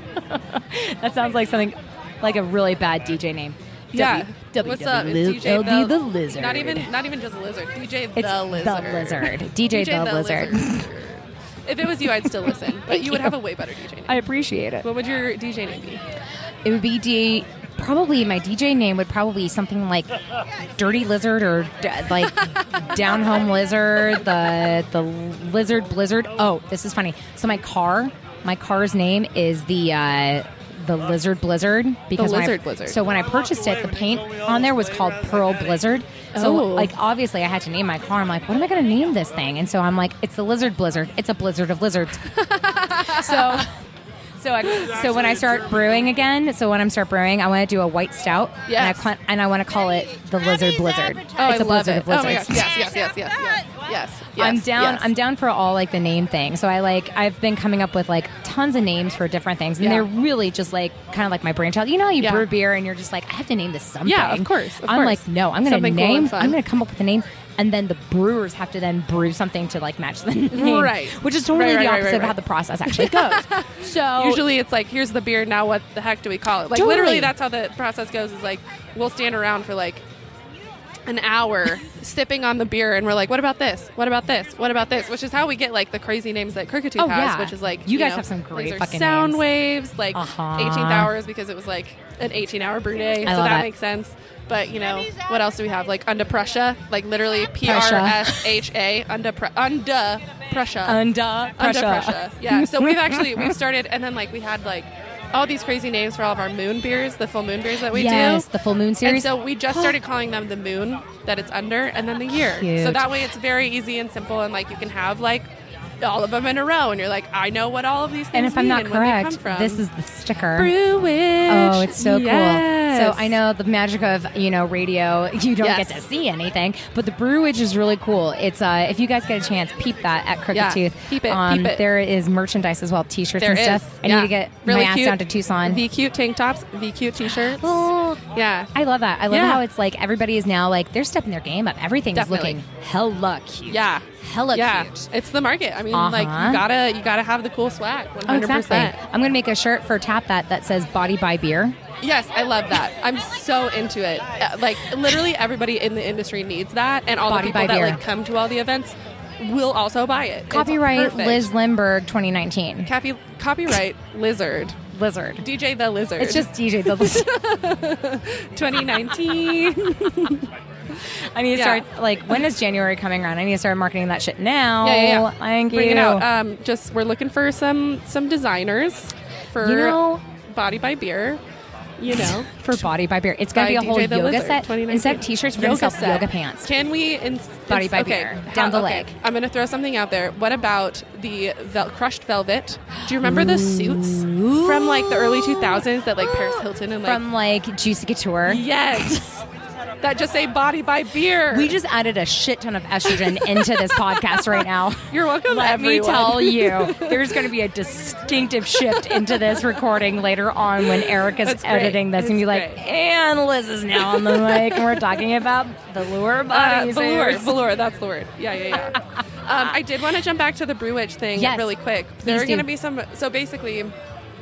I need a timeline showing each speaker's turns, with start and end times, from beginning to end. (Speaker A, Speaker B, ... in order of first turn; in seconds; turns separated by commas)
Speaker A: 0.3-6.9, Speaker B: 3.9-14.2, Speaker A: 8.2-10.8, Speaker A: 12.2-13.4, Speaker A: 14.1-14.9, Speaker B: 14.8-16.0, Speaker A: 16.6-20.2, Speaker A: 20.8-42.4, Speaker B: 32.1-33.0, Speaker B: 36.3-36.9, Speaker B: 42.3-43.7, Speaker A: 43.0-43.7, Speaker A: 44.4-52.7, Speaker B: 48.7-49.1, Speaker B: 51.4-55.1, Speaker A: 54.4-74.4, Speaker B: 59.8-60.1, Speaker B: 62.2-62.5, Speaker B: 64.0-66.6, Speaker B: 70.5-80.0, Speaker A: 76.7-77.3, Speaker B: 81.1-101.0, Speaker A: 87.0-89.4, Speaker A: 90.1-91.1, Speaker A: 93.2-93.7, Speaker A: 97.6-98.5, Speaker A: 100.8-103.5, Speaker B: 101.6-108.5, Speaker A: 107.9-110.0, Speaker B: 109.0-115.5, Speaker A: 112.3-113.1, Speaker B: 116.0-119.8, Speaker A: 118.3-120.7, Speaker B: 120.5-123.3, Speaker A: 121.5-135.8, Speaker B: 125.6-126.0, Speaker B: 130.5-131.8, Speaker B: 133.4-138.7, Speaker A: 137.3-145.1, Speaker B: 139.3-139.6, Speaker B: 142.1-142.6, Speaker B: 143.7-149.0, Speaker A: 145.9-146.6, Speaker A: 148.2-151.8, Speaker B: 152.0-161.5, Speaker A: 157.3-158.0, Speaker A: 160.5-162.9, Speaker B: 162.8-164.8, Speaker A: 164.9-165.4, Speaker B: 165.4-170.5, Speaker A: 166.2-167.3, Speaker A: 171.3-176.2, Speaker B: 171.5-171.8, Speaker B: 174.8-181.4, Speaker A: 179.6-180.2, Speaker B: 182.0-182.9, Speaker A: 182.1-186.7, Speaker B: 183.5-197.2, Speaker A: 187.7-189.1, Speaker A: 193.2-199.1, Speaker B: 198.4-199.4, Speaker B: 200.0-201.8, Speaker A: 201.5-217.6, Speaker B: 203.1-207.4, Speaker B: 208.9-209.6, Speaker B: 210.9-212.8, Speaker B: 214.0-215.1, Speaker B: 216.5-223.9, Speaker A: 221.3-222.7